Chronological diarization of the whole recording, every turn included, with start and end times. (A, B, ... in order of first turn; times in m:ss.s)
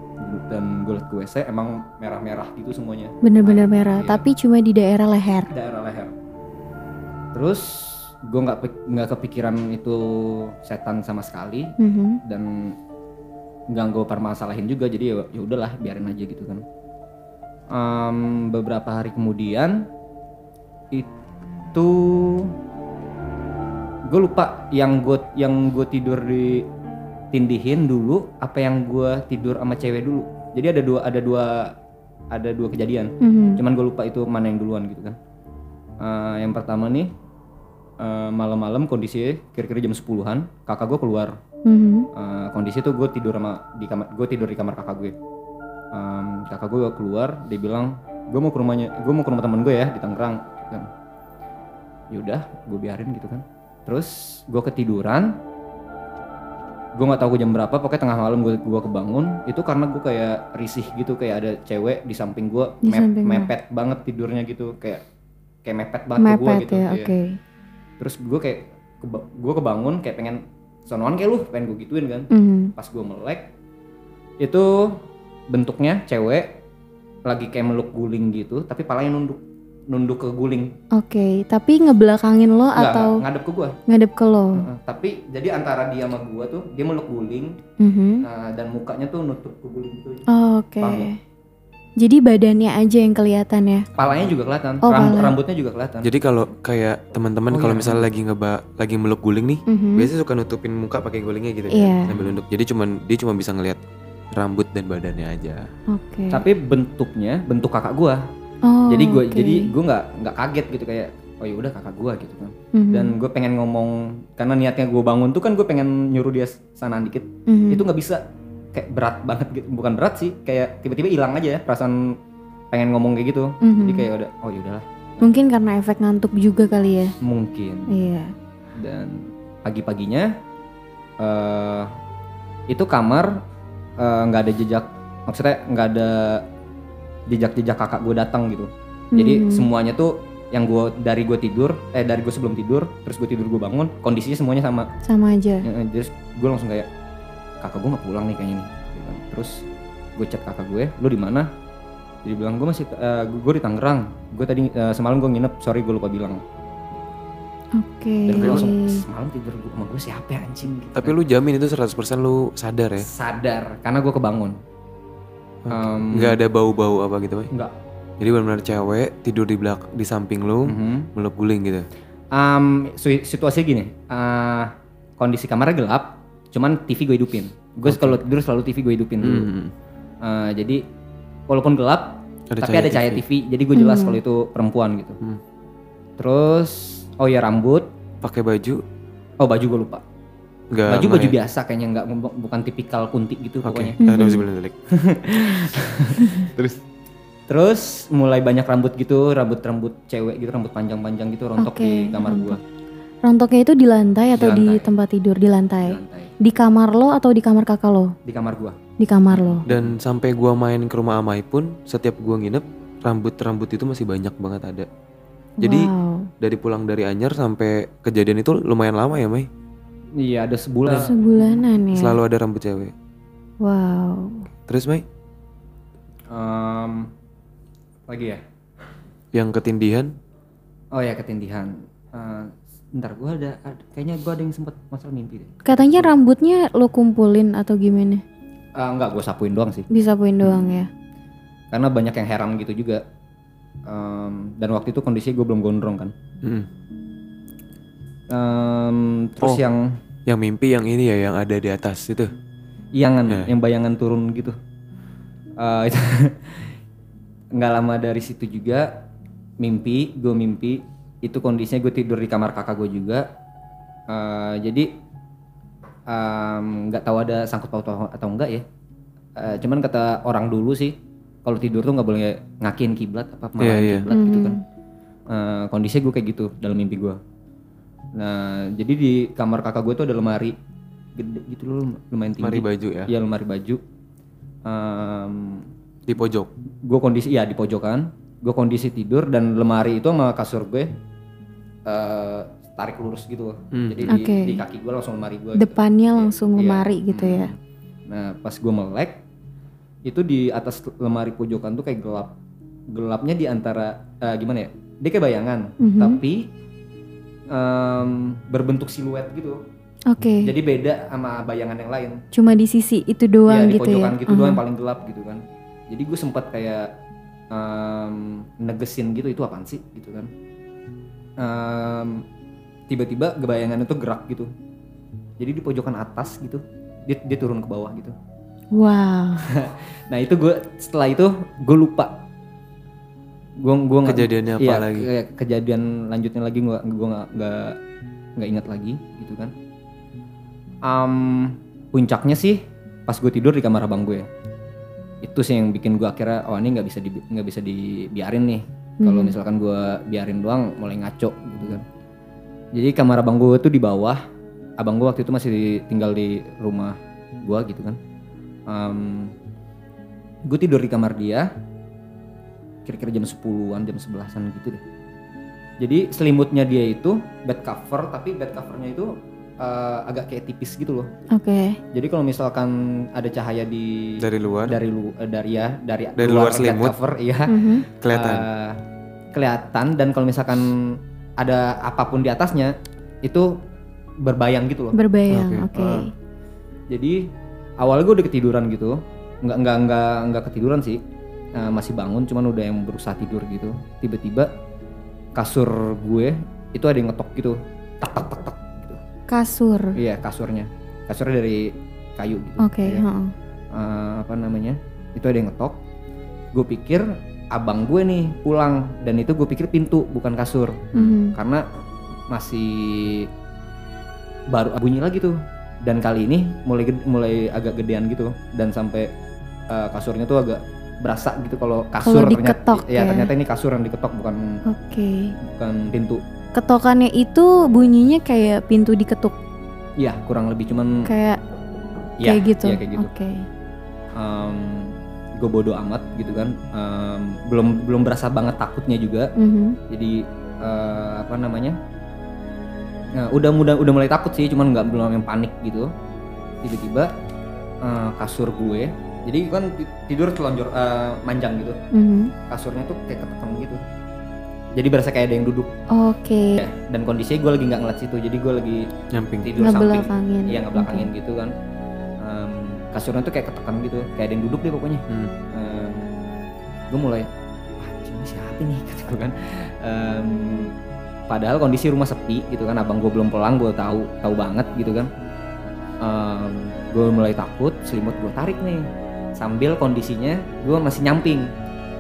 0:00.2-0:04.2 A
0:03.2-0:05.5 B
0:05.5-0:06.1 A
0:07.3-0:12.8 A
0:11.8-0:12.2 B
0:13.7-0:16.6 A
0:17.7-0:19.9 A
0:21.7-0:22.5 A
0:24.1-0:26.7 A
0:27.3-0:31.7 A
0:32.3-0:35.2 A
0:33.2-0:33.6 B
0:36.0-0:37.1 A
0:38.0-0:41.4 A
0:41.6-0:42.1 B
0:42.1-0:45.1 A
0:45.9-0:50.9 A
0:52.1-0:55.4 A
0:57.0-1:05.0 A
1:02.8-1:03.5 B
1:05.6-1:07.1 A
1:06.2-1:07.4 B
1:08.0-1:13.5 A
1:12.3-1:12.7 B
1:14.4-1:16.6 A
1:17.3-1:20.7 A
1:20.9-1:23.2 B
1:22.8-1:23.8 A
1:23.9-1:24.6 B
1:24.5-1:27.6 A
1:27.8-1:28.2 B
1:28.2-1:30.2 A
1:30.3-1:31.2 B
1:30.8-1:31.1 A
1:32.0-1:33.8 B
1:34.0-1:36.1 A
1:34.8-1:35.4 B
1:36.0-1:43.8 C
1:37.5-1:38.1 A
1:39.7-1:40.1 B
1:41.7-1:42.1 B
1:44.4-1:45.7 C
1:45.9-1:46.4 B
1:46.3-1:48.2 A
1:48.6-1:49.7 B
1:48.9-1:58.2 A
1:52.7-1:53.1 B
1:57.5-1:57.8 B
1:58.7-2:02.2 A
2:02.7-2:05.3 A
2:03.6-2:04.1 B
2:05.2-2:07.1 B
2:07.2-2:07.9 A
2:07.9-2:08.3 B
2:08.8-2:10.3 A
2:11.2-2:11.9 A
2:12.7-2:13.4 A
2:14.0-2:16.4 A
2:17.3-2:24.9 A
2:19.1-2:19.7 B
2:25.0-2:25.7 B
2:25.6-2:26.9 A
2:27.6-2:29.6 A
2:30.2-2:31.5 A
2:32.2-2:36.4 A
2:37.8-2:39.0 B
2:38.2-2:41.2 A
2:41.0-2:43.1 C
2:43.0-2:44.6 A
2:45.6-2:47.5 C
2:45.7-2:46.4 A
2:48.2-2:51.9 C
2:50.6-2:51.1 A
2:52.3-2:59.5 A
2:57.8-2:58.2 C
2:59.2-2:59.7 C
3:00.2-3:00.8 A
3:01.5-3:05.2 A
3:02.5-3:03.2 C
3:03.7-3:04.2 B
3:06.2-3:07.9 A
3:08.2-3:08.8 C
3:09.4-3:10.0 A
3:10.7-3:11.4 C
3:10.9-3:14.2 A
3:13.6-3:14.8 C
3:14.0-3:14.4 B
3:14.9-3:16.5 A
3:16.5-3:16.8 C
3:17.5-3:22.6 A
3:21.6-3:22.6 B
3:23.2-3:28.1 B
3:24.4-3:24.9 A
3:25.8-3:26.3 A
3:28.2-3:28.8 A
3:29.0-3:29.6 B
3:29.3-3:29.9 A
3:29.6-3:34.9 C
3:35.6-3:36.3 B
3:35.6-3:35.9 C
3:36.4-3:39.5 C
3:40.2-3:41.6 A
3:40.9-3:42.2 B
3:41.9-3:42.9 C
3:43.6-3:44.4 B
3:44.7-3:45.0 C
3:46.3-3:47.1 A
3:48.1-3:48.4 A
3:49.3-3:50.1 C
3:50.9-3:56.1 A
3:55.6-3:58.2 B
3:58.8-3:59.9 A
3:59.9-4:00.9 B
4:01.7-4:03.0 A
4:03.9-4:06.1 A
4:06.4-4:06.7 C
4:08.3-4:10.0 A
4:10.2-4:12.3 C
4:12.9-4:14.5 A
4:15.6-4:16.7 A
4:17.5-4:19.0 A
4:19.6-4:23.2 A
4:24.1-4:24.9 A
4:26.1-4:28.6 A
4:29.4-4:34.6 A
4:33.6-4:34.1 C
4:34.1-4:34.6 B
4:35.3-4:37.2 A
4:38.1-4:40.6 A
4:41.2-4:43.8 A
4:42.4-4:43.1 C
4:44.6-4:45.7 A
4:46.1-4:46.5 C
4:46.8-4:50.9 A
4:51.8-4:57.6 A
4:53.7-4:54.1 C
4:54.1-4:54.6 B
4:55.6-4:57.5 B
4:58.1-4:59.2 A
5:00.0-5:02.3 A
5:02.9-5:06.5 A
5:05.8-5:06.2 B
5:07.5-5:09.6 A
5:10.1-5:10.5 B
5:10.4-5:12.2 A
5:12.3-5:14.6 B
5:13.5-5:16.9 A
5:17.5-5:20.3 A
5:21.4-5:22.2 A
5:22.9-5:24.5 A
5:25.4-5:28.1 A
5:28.7-5:29.5 B
5:29.4-5:32.2 A
5:33.6-5:37.8 A
5:34.0-5:35.1 C
5:38.4-5:39.5 A
5:40.8-5:44.3 A
5:45.2-5:51.8 A
5:49.0-5:49.3 B
5:52.7-5:54.2 A
5:54.8-5:58.0 A
5:58.7-5:59.3 A
6:00.4-6:01.5 A
6:02.8-6:04.8 A
6:05.8-6:11.1 A
6:11.3-6:11.8 B
6:11.9-6:18.8 A
6:14.2-6:14.8 C
6:16.2-6:16.9 C
6:17.5-6:17.8 B
6:18.0-6:18.5 C
6:19.3-6:23.6 A
6:24.2-6:25.0 A
6:24.9-6:26.1 B
6:25.3-6:25.7 C
6:26.9-6:27.3 A
6:27.8-6:31.0 A
6:31.5-6:34.5 A
6:35.4-6:39.0 A
6:39.3-6:40.0 B
6:40.0-6:43.0 A
6:42.6-6:43.3 B
6:43.7-6:45.8 A
6:46.5-6:51.6 A
6:50.9-6:51.4 B
6:52.3-6:53.3 A
6:54.5-6:59.1 A
6:59.7-7:04.6 A
7:02.0-7:03.3 B
7:04.6-7:05.3 B
7:05.4-7:06.2 A
7:06.5-7:09.4 B
7:10.0-7:11.1 A
7:11.0-7:11.4 B
7:12.2-7:13.1 A
7:12.2-7:13.5 B
7:14.2-7:19.3 A
7:19.4-7:19.8 B
7:19.9-7:21.8 A
7:23.1-7:25.9 A
7:26.6-7:27.1 A
7:27.8-7:31.8 A
7:31.9-7:32.3 B
7:32.5-7:33.8 A
7:34.7-7:35.7 A
7:35.9-7:36.6 B
7:36.6-7:38.9 A
7:39.1-7:39.5 C
7:39.4-7:41.5 A
7:39.6-7:41.1 B
7:42.2-7:46.1 A
7:46.9-7:47.3 A
7:47.8-7:50.7 A
7:51.3-7:55.1 A
7:56.0-8:01.5 A